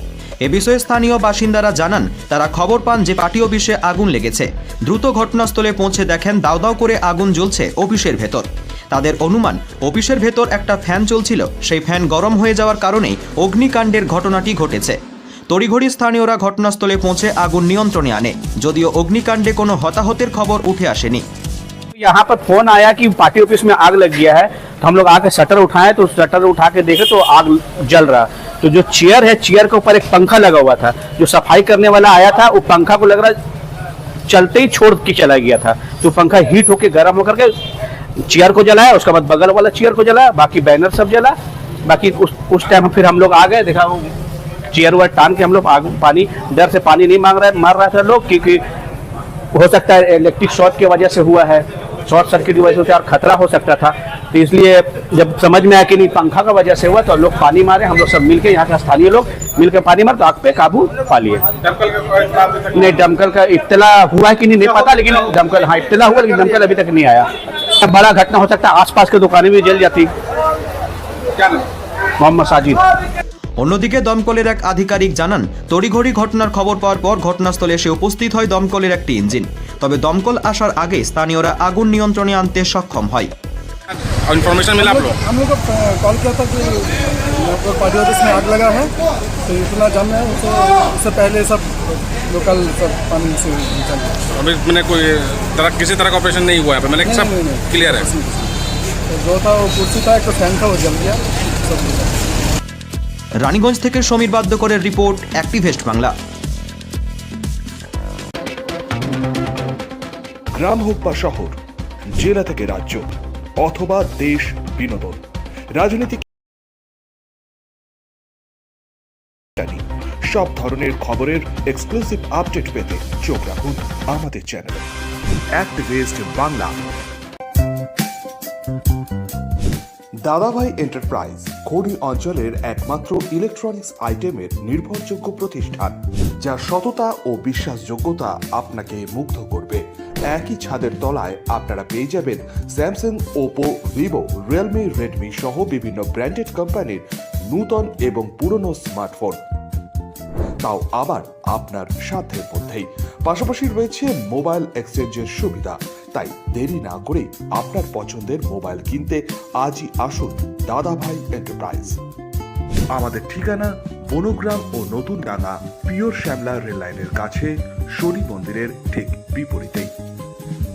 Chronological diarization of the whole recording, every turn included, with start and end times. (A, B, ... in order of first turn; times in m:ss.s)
0:00.4-0:15.0 A
0:15.5-0:21.2 A
0:22.0-0:33.4 B
0:34.3-0:37.5 B
0:38.2-0:44.1 B
0:44.7-0:48.6 B
0:49.5-1:10.1 B
1:12.2-1:12.8 B
1:13.6-1:23.3 A
1:24.1-1:25.2 C
1:24.8-1:34.3 D
1:34.4-1:38.1 C
1:37.0-1:42.4 D
1:43.4-1:46.1 A
1:50.5-1:51.6 E
1:52.1-1:55.2 E
1:55.8-1:56.2 E
1:59.6-2:04.9 E
2:05.5-2:06.8 E
2:10.2-2:29.4 E
2:30.6-2:42.0 E
2:42.9-2:49.9 E